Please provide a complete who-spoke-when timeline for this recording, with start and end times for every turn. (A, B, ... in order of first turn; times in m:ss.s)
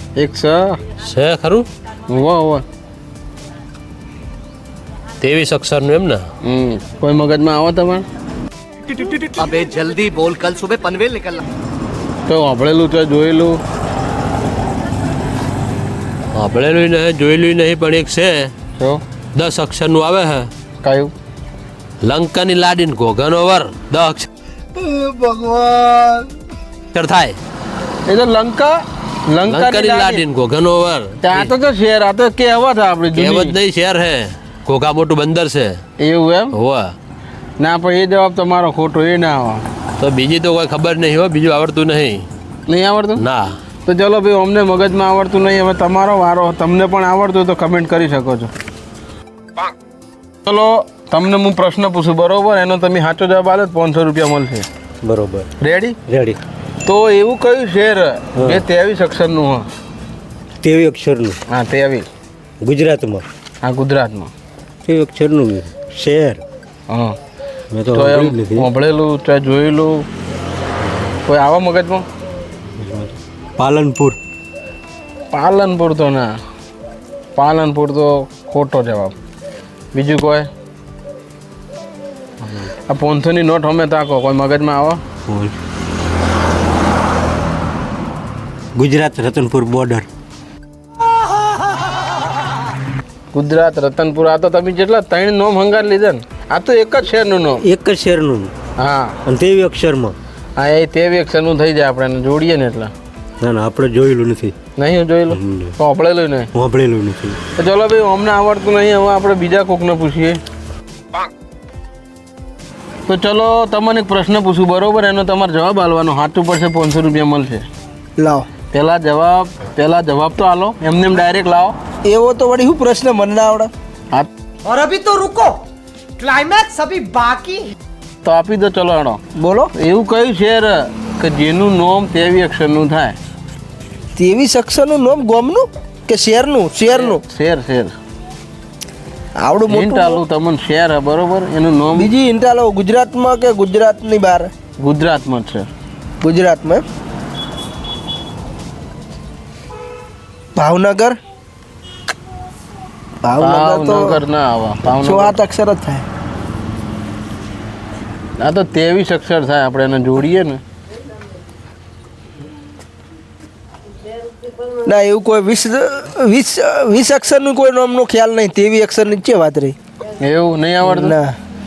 0:00.2-0:00.8 A
0:01.0-0:01.7 B
0:02.1-0:02.6 A
0:05.2-0:06.2 B
0:06.4-0:08.0 A
0:08.9-0:11.4 C
0:12.3-0:13.6 A
0:16.3-0:18.5 B
0:19.4-0:20.5 B
0:20.8-0:21.1 A
0:22.0-0:24.3 B
0:24.8-0:26.2 D
0:26.9-0:27.4 B
0:28.1-0:30.2 A
0:29.5-0:31.5 B
0:31.2-0:33.6 A
0:33.2-0:35.8 B
0:36.0-0:36.5 A
0:36.5-0:36.9 B
0:37.6-0:39.6 A
0:40.0-0:42.3 B
0:42.7-0:43.2 A
0:43.2-0:43.5 B
0:43.8-0:48.5 A
0:50.5-0:54.7 A
0:55.0-0:55.5 E
0:55.6-0:56.0 A
0:56.1-0:56.4 E
0:56.8-0:59.7 A
1:00.6-1:01.4 E
1:01.5-1:02.1 A
1:02.6-1:03.2 E
1:03.6-1:04.3 A
1:04.9-1:06.4 E
1:06.9-1:07.2 A
1:07.7-1:08.7 E
1:07.9-1:10.0 A
1:11.3-1:12.0 A
1:12.8-1:14.2 E
1:15.3-1:16.3 A
1:17.4-1:19.1 A
1:19.9-1:20.5 A
1:22.4-1:22.7 E
1:22.9-1:25.0 A
1:25.3-1:25.5 E
1:28.8-1:30.1 E
1:33.3-1:37.6 A
1:37.7-1:38.5 E
1:38.8-1:39.2 A
1:39.3-1:40.2 E
1:40.6-1:42.9 A
1:43.4-1:44.6 E
1:44.8-1:46.5 A
1:45.3-1:45.7 E
1:46.5-1:47.4 E
1:47.6-1:50.4 A
1:53.1-1:57.7 A
1:58.2-1:58.5 D
1:58.7-2:01.8 A
2:02.0-2:03.7 D
2:04.7-2:05.6 F
2:06.2-2:07.7 F
2:08.2-2:09.2 A
2:09.4-2:09.7 D
2:09.7-2:13.2 A
2:14.2-2:17.2 D
2:16.9-2:17.9 A
2:19.4-2:20.2 D
2:19.7-2:22.1 A
2:22.0-2:24.5 D
2:24.8-2:25.7 A
2:26.2-2:26.8 D
2:30.6-2:31.2 D
2:33.2-2:34.2 D
2:33.4-2:35.4 A
2:34.9-2:36.1 D
2:38.4-2:40.6 A
2:44.7-2:49.8 D
2:50.2-2:51.2 A
2:50.8-2:51.4 D